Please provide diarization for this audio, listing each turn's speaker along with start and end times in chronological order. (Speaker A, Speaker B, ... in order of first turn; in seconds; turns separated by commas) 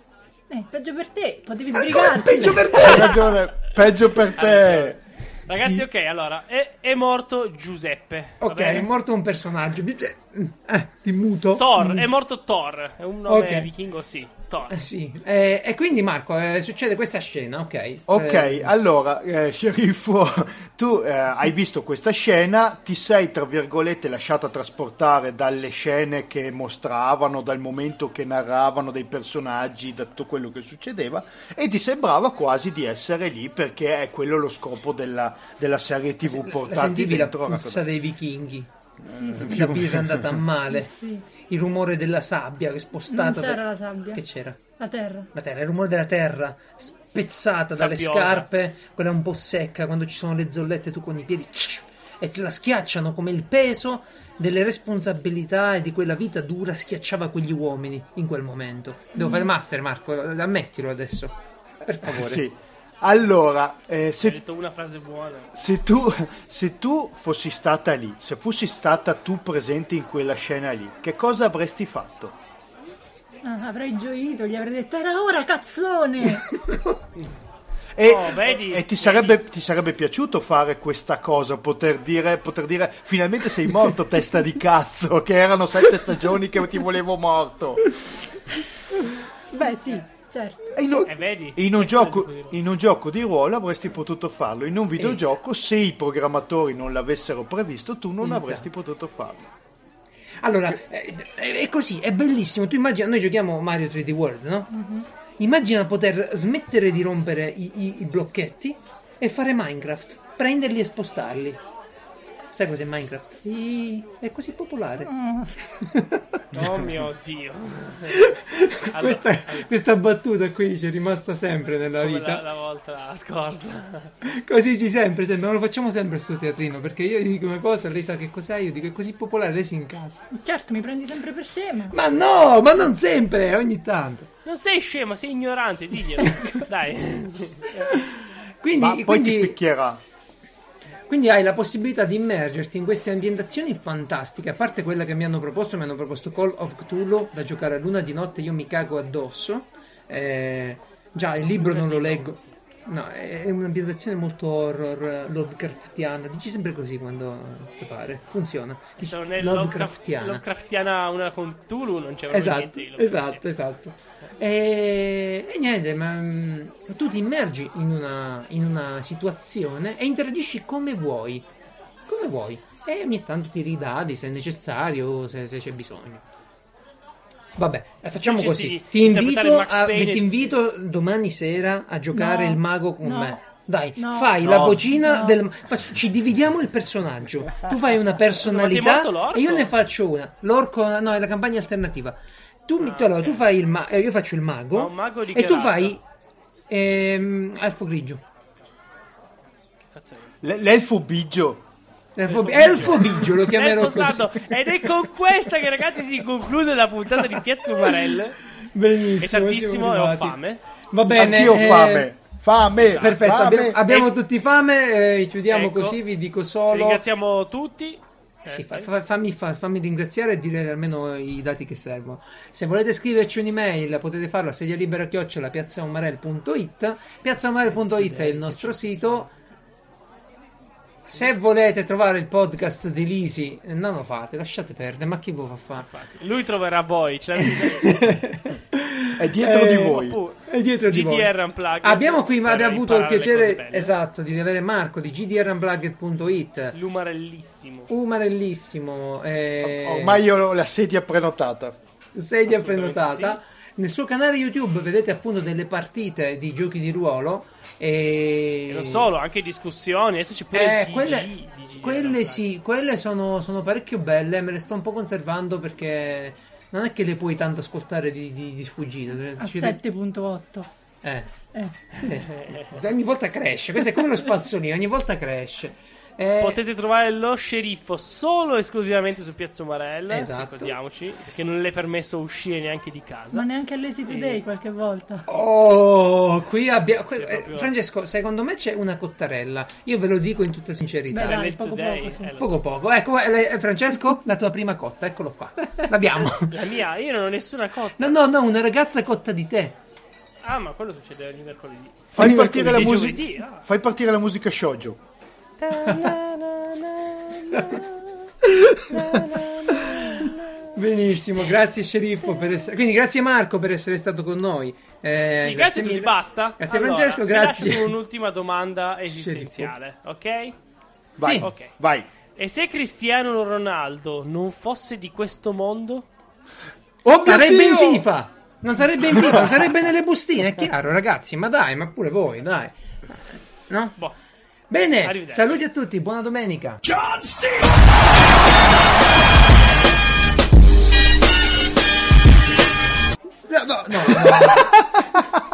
Speaker A: 0.5-3.2, Speaker B: 1.7-3.4, Speaker C: 2.7-5.0, Speaker D: 4.2-8.9, Speaker B: 8.4-12.1, Speaker D: 11.6-14.8, Speaker B: 13.3-13.7, Speaker B: 14.7-18.7, Speaker C: 18.1-37.8, Speaker B: 36.2-38.7, Speaker A: 39.1-39.5, Speaker C: 39.1-40.2, Speaker B: 39.3-40.9, Speaker A: 40.7-41.2, Speaker B: 41.5-43.6, Speaker A: 43.1-44.2, Speaker B: 44.1-44.6, Speaker A: 44.8-45.3, Speaker B: 45.3-62.4, Speaker D: 47.7-48.5, Speaker A: 59.1-59.5, Speaker C: 62.0-64.4, Speaker D: 64.2-65.5, Speaker C: 65.5-72.3, Speaker A: 73.4-76.6, Speaker B: 76.5-77.0, Speaker C: 78.0-88.0, Speaker D: 78.0-79.4, Speaker A: 89.5-90.7, Speaker C: 90.7-99.5, Speaker D: 91.0-92.5, Speaker B: 95.0-95.3, Speaker B: 98.2-98.7, Speaker B: 100.4-104.7, Speaker A: 104.7-105.0, Speaker B: 105.4-111.6, Speaker B: 112.5-113.4, Speaker A: 113.4-114.1, Speaker B: 114.2-115.1, Speaker A: 115.0-115.6, Speaker B: 115.8-116.4, Speaker D: 116.5-118.3, Speaker B: 118.1-122.4, Speaker D: 118.9-119.7, Speaker D: 122.0-124.1, Speaker B: 124.2-130.3, Speaker A: 130.3-131.9, Speaker B: 131.9-134.3, Speaker D: 134.4-137.9, Speaker B: 137.9-139.6, Speaker C: 138.8-140.0, Speaker B: 141.1-160.4, Speaker D: 151.6-152.5, Speaker D: 159.0-163.4, Speaker B: 162.3-171.5, Speaker B: 172.1-176.2, Speaker B: 177.6-196.0, Speaker D: 178.2-180.5, Speaker A: 182.1-183.4, Speaker A: 184.0-185.4, Speaker C: 184.4-184.8, Speaker D: 188.4-189.7, Speaker D: 192.8-193.4, Speaker D: 194.7-196.0, Speaker B: 196.7-198.2, Speaker D: 199.9-200.3, Speaker C: 200.4-201.6, Speaker B: 202.2-204.8, Speaker D: 202.3-208.4, Speaker B: 207.4-208.0, Speaker B: 208.6-210.4, Speaker D: 209.2-210.6, Speaker B: 210.9-212.1, Speaker C: 211.1-213.8, Speaker D: 212.8-214.1, Speaker B: 212.9-217.0, Speaker D: 215.5-216.0, Speaker D: 216.7-218.9, Speaker B: 218.5-229.3, Speaker D: 227.7-229.3, Speaker B: 231.1-235.9, Speaker D: 235.8-237.9, Speaker B: 237.4-246.8, Speaker C: 239.2-240.2, Speaker D: 239.8-243.9, Speaker D: 246.7-247.9, Speaker B: 247.9-250.2, Speaker C: 249.6-251.8, Speaker B: 252.1-259.1, Speaker D: 252.4-253.4, Speaker D: 258.7-262.4, Speaker B: 260.5-269.8, Speaker A: 269.4-270.7, Speaker B: 271.0-271.3, Speaker A: 271.5-272.1, Speaker B: 271.9-276.6, Speaker D: 272.0-272.7, Speaker D: 276.4-283.4, Speaker B: 280.1-280.7, Speaker A: 283.3-285.3, Speaker D: 284.1-284.4, Speaker B: 285.3-291.5, Speaker D: 287.1-287.7, Speaker A: 291.1-292.4, Speaker D: 291.2-292.6, Speaker B: 292.4-296.6, Speaker D: 296.1-298.2, Speaker B: 298.0-299.8, Speaker D: 300.4-303.6, Speaker C: 302.1-305.0, Speaker B: 302.2-303.2, Speaker D: 305.6-308.3, Speaker B: 305.9-306.1, Speaker B: 307.5-307.8, Speaker B: 308.4-317.9, Speaker D: 308.9-310.8, Speaker D: 315.2-320.6, Speaker B: 319.1-319.7, Speaker C: 321.2-322.1, Speaker B: 321.2-321.5, Speaker D: 321.4-321.7, Speaker D: 322.4-326.0, Speaker C: 327.0-328.1, Speaker B: 327.1-334.0, Speaker C: 329.1-329.4, Speaker B: 334.7-336.8, Speaker D: 335.0-335.6, Speaker B: 343.4-345.3